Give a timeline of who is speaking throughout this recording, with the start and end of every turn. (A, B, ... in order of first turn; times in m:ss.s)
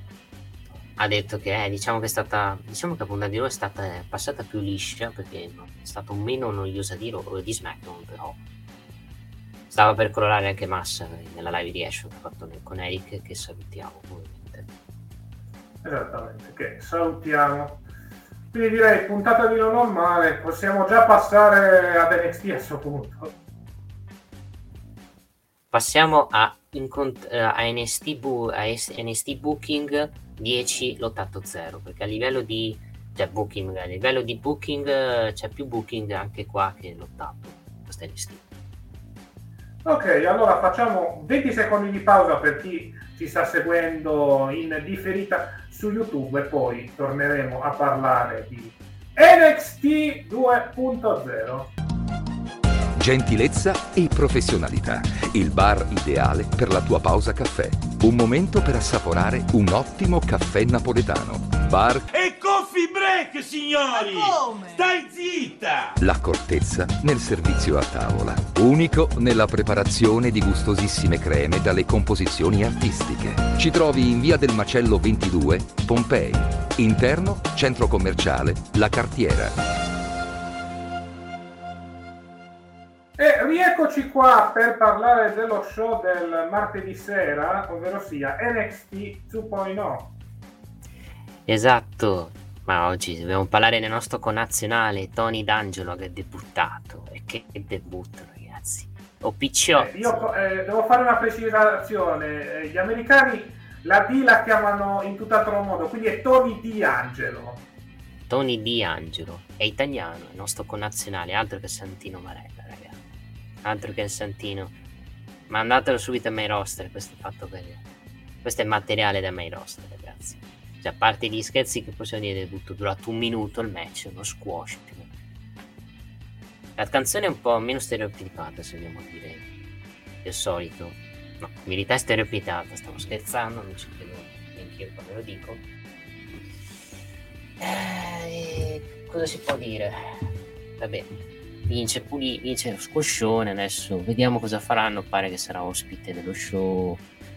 0:01.0-0:08.4 A
0:09.7-0:14.7 A
0:15.8-0:17.8 B
0:18.5-0:23.3 B
0:25.7-0:38.4 A
0:39.8-0:51.7 B
0:53.0-1:02.1 C
1:02.1-1:06.0 D
1:06.0-1:19.6 C
1:23.2-1:30.1 B
1:31.5-1:40.3 A
1:39.8-1:47.6 B
1:48.3-1:53.0 A
1:53.6-1:54.7 A
1:55.5-1:57.8 A
1:58.4-2:05.1 A
2:06.8-2:09.4 A
2:10.2-2:15.6 A
2:17.6-2:20.2 A
2:20.8-2:21.1 A
2:21.6-2:27.0 A